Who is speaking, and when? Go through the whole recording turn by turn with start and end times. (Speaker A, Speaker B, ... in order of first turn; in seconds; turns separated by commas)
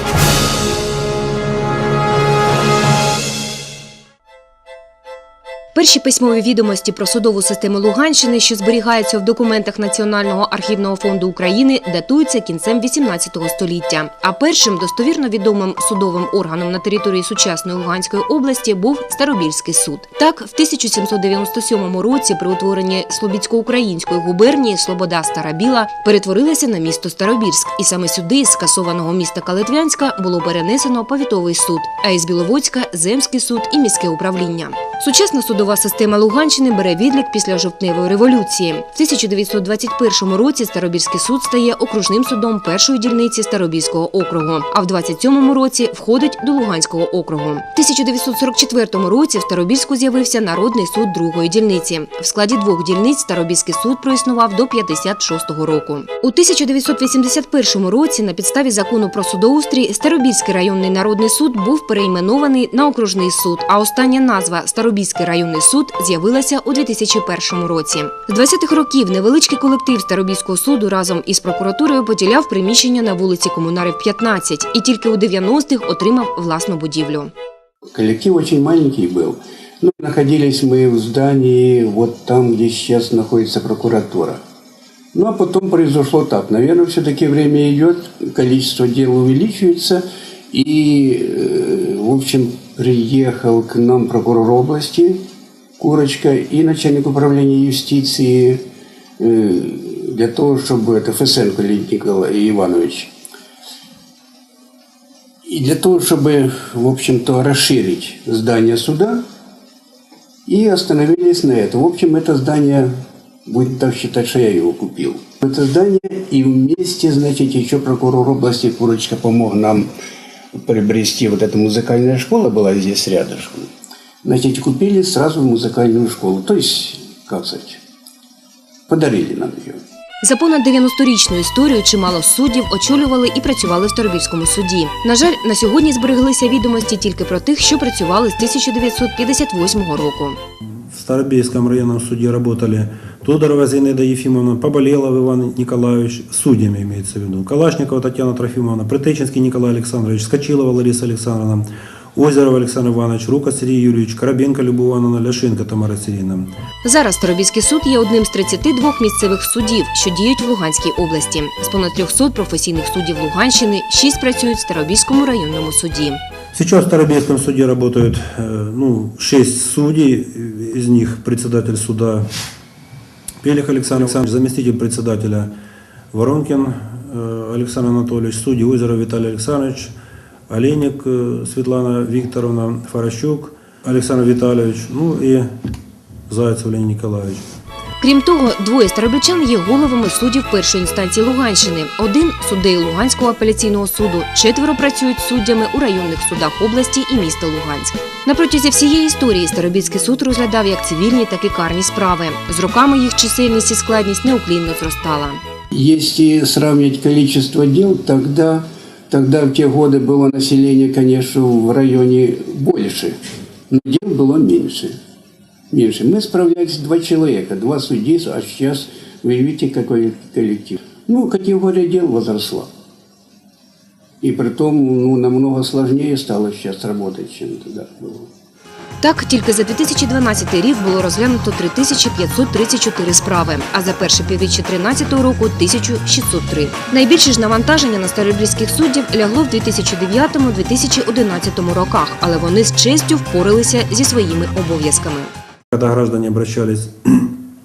Speaker A: 5.7-77.3, Speaker B: 77.9-84.4, Speaker B: 85.1-95.2, Speaker B: 95.8-98.6, Speaker B: 99.2-103.1, Speaker B: 105.5-109.2, Speaker B: 110.5-112.9, Speaker B: 113.5-119.9, Speaker B: 120.5-123.7, Speaker B: 124.2-127.8, Speaker B: 128.9-129.8, Speaker A: 130.2-140.4, Speaker C: 140.9-156.5, Speaker A: 156.8-166.2, Speaker C: 166.5-172.3, Speaker C: 173.4-175.5, Speaker C: 176.1-179.9, Speaker C: 180.5-185.5, Speaker C: 186.3-187.4, Speaker A: 188.0-205.4, Speaker B: 205.7-213.1, Speaker B: 213.7-214.9, Speaker B: 215.7-222.7, Speaker B: 224.2-228.3, Speaker A: 229.0-245.3, Speaker C: 245.7-247.4